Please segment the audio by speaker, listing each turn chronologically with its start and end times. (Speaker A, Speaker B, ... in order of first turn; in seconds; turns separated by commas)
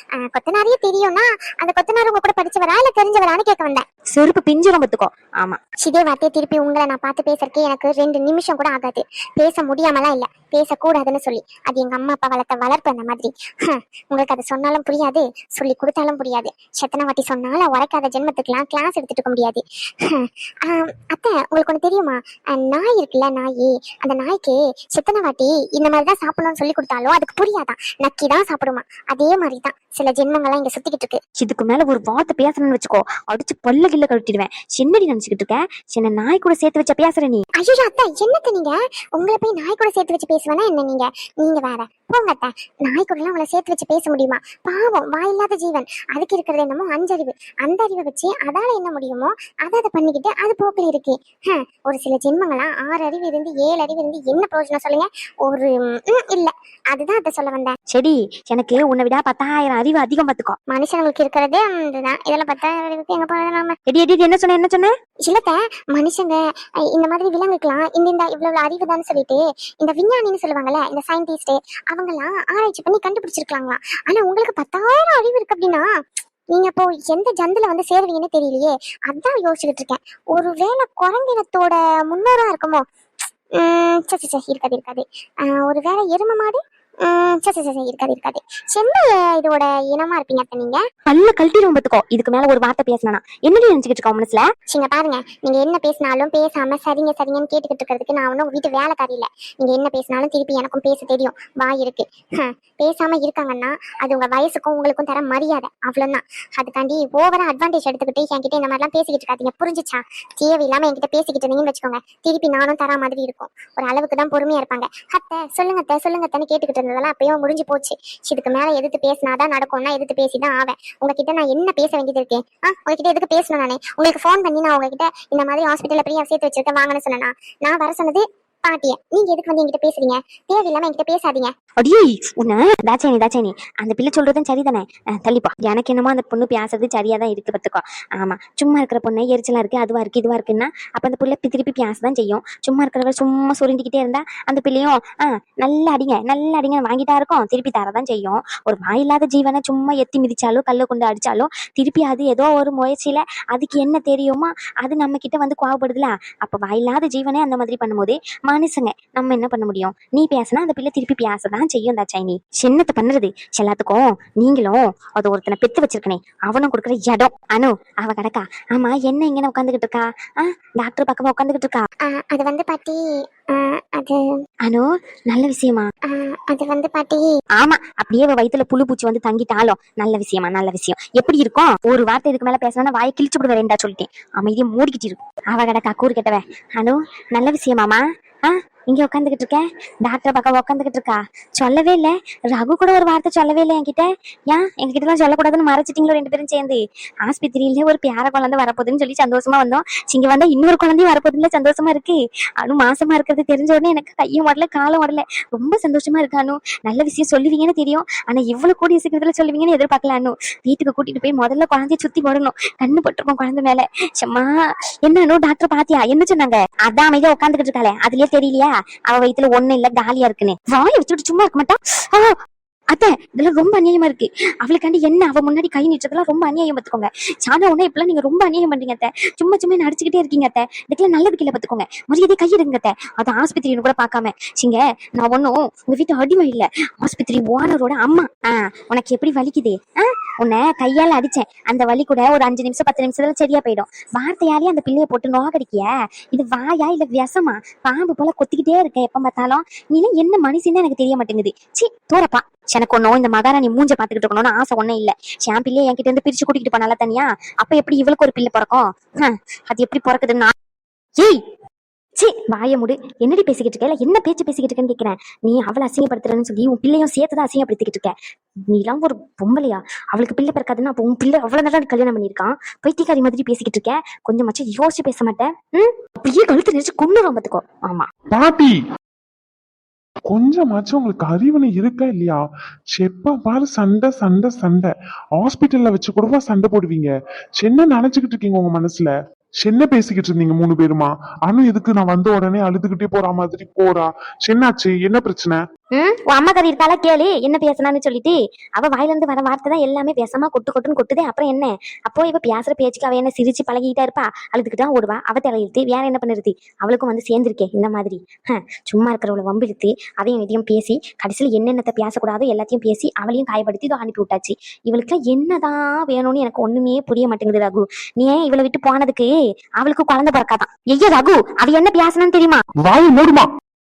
Speaker A: 0.2-3.9, Speaker B: 4.1-5.6, Speaker A: 5.8-31.2, Speaker B: 31.4-37.4, Speaker A: 37.6-57.8, Speaker B: 57.9-60.6, Speaker A: 60.7-63.8, Speaker B: 63.9-64.9, Speaker A: 65.3-66.4, Speaker A: 66.9-75.9, Speaker A: 76.5-82.8, Speaker A: 83.6-90.8, Speaker B: 91.1-94.4, Speaker A: 94.7-131.5, Speaker B: 131.8-145.0, Speaker B: 145.6-171.8, Speaker A: 172.1-173.0, Speaker A: 173.5-174.2, Speaker B: 174.7-175.9, Speaker A: 176.1-177.2, Speaker B: 177.6-188.0, Speaker B: 188.9-214.5, Speaker B: 215.1-222.3, Speaker B: 222.9-239.8, Speaker B: 240.4-260.5, Speaker B: 262.2-268.1, Speaker B: 268.7-278.0, Speaker C: 278.3-278.8, Speaker C: 280.3-282.4, Speaker C: 282.9-289.1, Speaker C: 289.6-295.6, Speaker B: 296.0-308.2, Speaker B: 308.9-322.6, Speaker C: 322.8-323.5